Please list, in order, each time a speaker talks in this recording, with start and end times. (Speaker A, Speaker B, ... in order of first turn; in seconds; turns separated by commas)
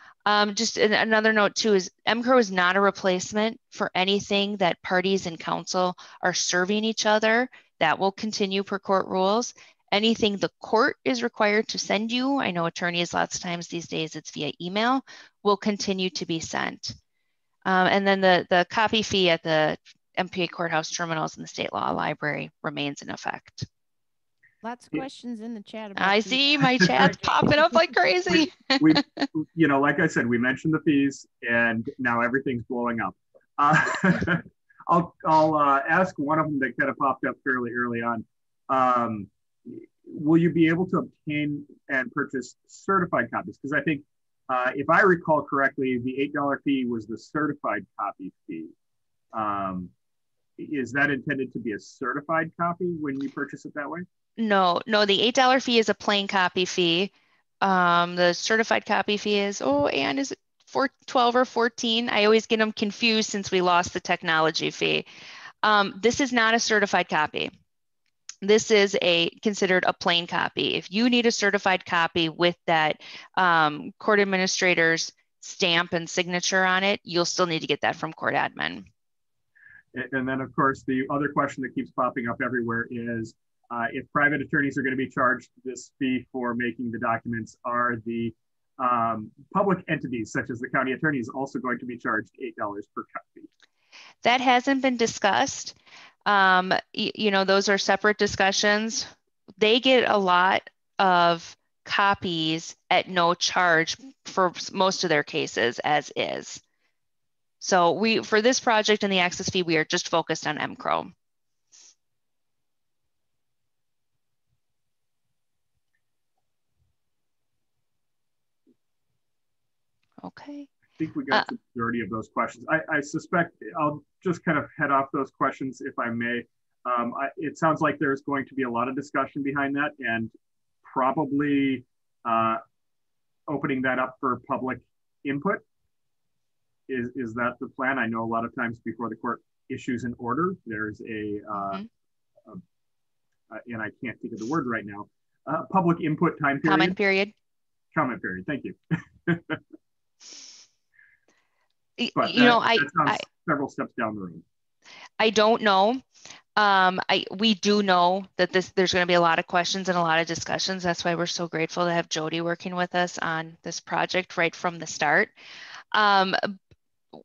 Speaker A: 0.3-17.0, Speaker A: 17.6-23.7, Speaker B: 24.6-27.8, Speaker A: 26.0-29.3, Speaker C: 28.3-48.7, Speaker C: 49.3-49.9, Speaker C: 50.6-54.1, Speaker A: 54.4-65.1, Speaker A: 65.6-67.5, Speaker A: 68.4-78.9, Speaker C: 79.9-93.5, Speaker A: 94.2-106.6, Speaker A: 107.6-111.1, Speaker A: 120.2-120.7, Speaker C: 121.0-130.3, Speaker C: 130.8-132.6, Speaker C: 133.5-135.6, Speaker C: 136.9-141.8, Speaker A: 141.6-141.8, Speaker C: 143.5-147.0, Speaker A: 146.7-147.3, Speaker C: 147.9-149.6, Speaker A: 152.0-153.2, Speaker C: 152.2-154.4, Speaker A: 155.2-156.0, Speaker A: 156.6-165.3, Speaker A: 165.9-166.5